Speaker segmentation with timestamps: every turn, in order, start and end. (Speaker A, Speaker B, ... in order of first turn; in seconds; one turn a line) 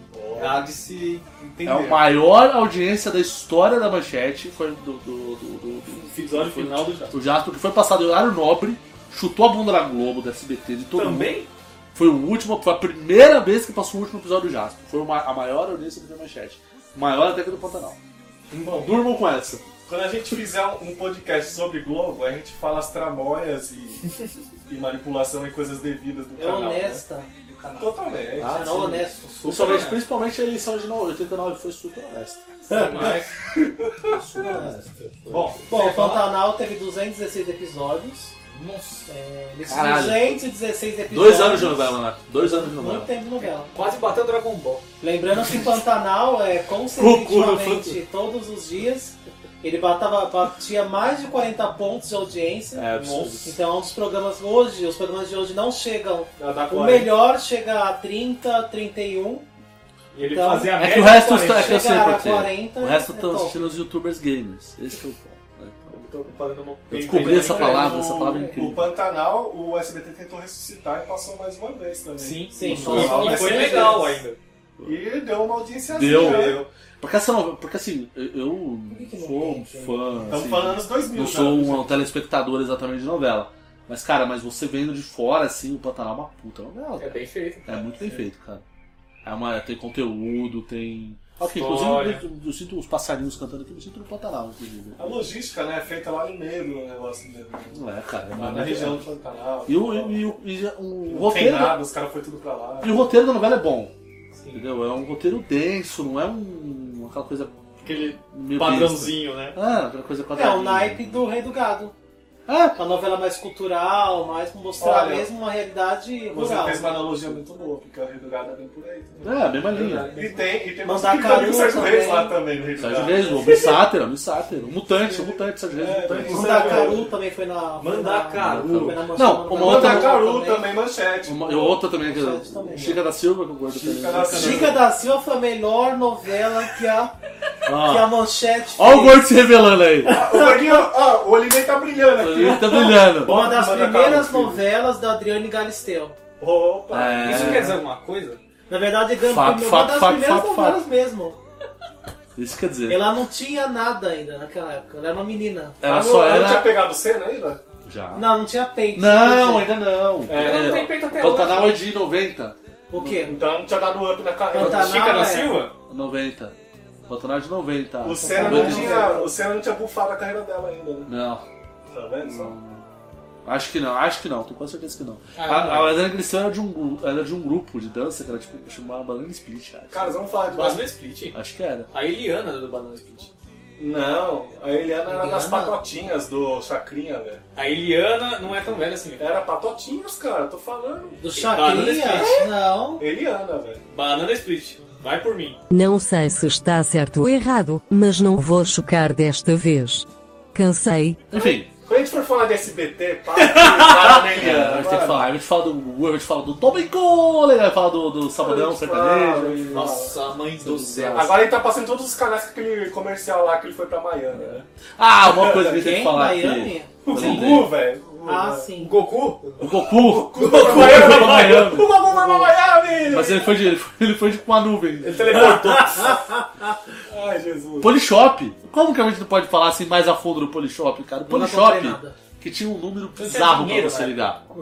Speaker A: 0.1-0.7
Speaker B: 0.3-2.1
Speaker C: 1.6-11.4
Speaker B: 6.0-7.2
Speaker B: 10.9-11.5
Speaker C: 11.9-18.0
Speaker A: 18.5-18.9
Speaker C: 18.7-19.7
Speaker A: 19.9-24.1
Speaker A: 24.7-28.9
Speaker D: 26.4-27.3
Speaker C: 28.4-33.1
Speaker D: 28.4-29.2
Speaker B: 29.2-30.0
Speaker B: 32.7-33.3
Speaker A: 33.0-34.1
Speaker C: 34.0-35.6
Speaker D: 34.5-34.7
Speaker B: 35.3-36.2
Speaker D: 35.7-38.3
Speaker B: 38.5-39.1
Speaker D: 39.1-43.7
Speaker C: 39.7-40.4
Speaker C: 41.1-43.1
Speaker B: 43.6-44.8
Speaker D: 45.0-52.9
Speaker C: 45.4-45.7
Speaker C: 47.0-48.0
Speaker B: 52.8-53.5
Speaker D: 53.5-59.5
Speaker A: 56.4-57.1
Speaker B: 60.1-61.9
Speaker D: 60.3-60.8
Speaker C: 60.8-66.0
Speaker D: 61.5-63.7
Speaker B: 66.0-67.9
Speaker A: 66.9-74.2
Speaker C: 66.9-68.9
Speaker B: 72.2-74.4
Speaker D: 72.5-74.2
Speaker C: 72.7-73.6
Speaker A: 74.8-76.7
Speaker C: 75.9-88.6
Speaker B: 76.1-76.5
Speaker D: 78.9-80.2
Speaker A: 80.3-82.0
Speaker B: 87.0-87.8
Speaker C: 89.2-95.2
Speaker B: 91.5-92.2
Speaker A: 95.0-97.8
Speaker C: 97.7-99.1
Speaker A: 98.3-100.2
Speaker C: 99.7-101.8
Speaker A: 101.1-103.0
Speaker C: 102.8-103.9
Speaker C: 104.5-107.5
Speaker B: 107.8-109.6
Speaker C: 108.3-111.2
Speaker D: 110.3-111.9
Speaker C: 112.5-112.8
Speaker D: 112.8-117.3
Speaker A: 114.8-115.3
Speaker A: 116.3-119.5
Speaker C: 119.2-120.1
Speaker B: 119.7-120.5
Speaker A: 120.1-123.8
Speaker D: 120.8-122.3
Speaker C: 122.8-126.9
Speaker A: 125.0-127.1
Speaker D: 126.3-130.7
Speaker B: 127.8-129.0
Speaker C: 128.4-130.2
Speaker A: 129.6-131.9
Speaker C: 131.2-134.8
Speaker D: 132.1-133.0
Speaker A: 133.7-134.8
Speaker D: 134.2-137.1
Speaker C: 137.7-138.1
Speaker D: 137.8-139.3
Speaker C: 138.8-140.2
Speaker A: 140.1-144.7
Speaker D: 140.1-140.8
Speaker C: 142.2-143.4
Speaker D: 143.2-146.2
Speaker A: 146.4-147.8
Speaker C: 146.9-147.8
Speaker B: 147.2-148.4
Speaker D: 148.7-151.4
Speaker C: 149.2-150.8
Speaker C: 152.4-153.1
Speaker D: 152.9-155.8
Speaker C: 155.8-156.8
Speaker A: 155.8-157.6
Speaker C: 157.8-158.3
Speaker D: 158.1-159.7
Speaker C: 158.9-162.6
Speaker A: 160.3-160.9
Speaker B: 160.3-161.8
Speaker D: 162.9-163.4
Speaker A: 163.1-165.3
Speaker D: 164.5-165.6
Speaker B: 164.6-165.7
Speaker C: 164.6-165.1
Speaker C: 165.9-166.6
Speaker C: 167.1-169.2
Speaker A: 168.0-171.1
Speaker D: 168.2-169.3
Speaker C: 171.1-171.4
Speaker A: 171.9-172.5
Speaker C: 172.2-172.9
Speaker C: 173.4-180.2
Speaker B: 175.4-176.0
Speaker A: 179.9-180.9
Speaker B: 180.5-181.4
Speaker C: 181.3-181.9
Speaker B: 181.9-183.3
Speaker A: 183.8-187.4
Speaker D: 185.1-185.8
Speaker B: 187.6-189.2
Speaker A: 189.2-192.4
Speaker D: 191.2-193.0
Speaker B: 191.4-192.4
Speaker A: 193.0-193.8
Speaker B: 193.9-195.6
Speaker E: 195.7-201.2
Speaker C: 201.3-201.7
Speaker A: 201.3-205.3
Speaker C: 203.8-210.1
Speaker A: 208.4-210.1
Speaker B: 209.7-211.5
Speaker C: 210.6-211.4
Speaker A: 211.1-214.7
Speaker C: 215.0-217.8
Speaker A: 215.2-215.9
Speaker D: 215.7-216.9
Speaker B: 217.1-217.7
Speaker A: 217.1-218.7
Speaker D: 218.2-219.0
Speaker B: 218.8-219.6
Speaker C: 219.6-221.9
Speaker A: 219.6-223.7
Speaker B: 220.3-221.8
Speaker D: 222.1-222.5
Speaker C: 223.1-226.2
Speaker B: 225.0-226.2
Speaker A: 225.4-225.8
Speaker A: 227.1-228.0
Speaker C: 227.8-234.4
Speaker D: 231.3-232.2
Speaker B: 233.2-234.3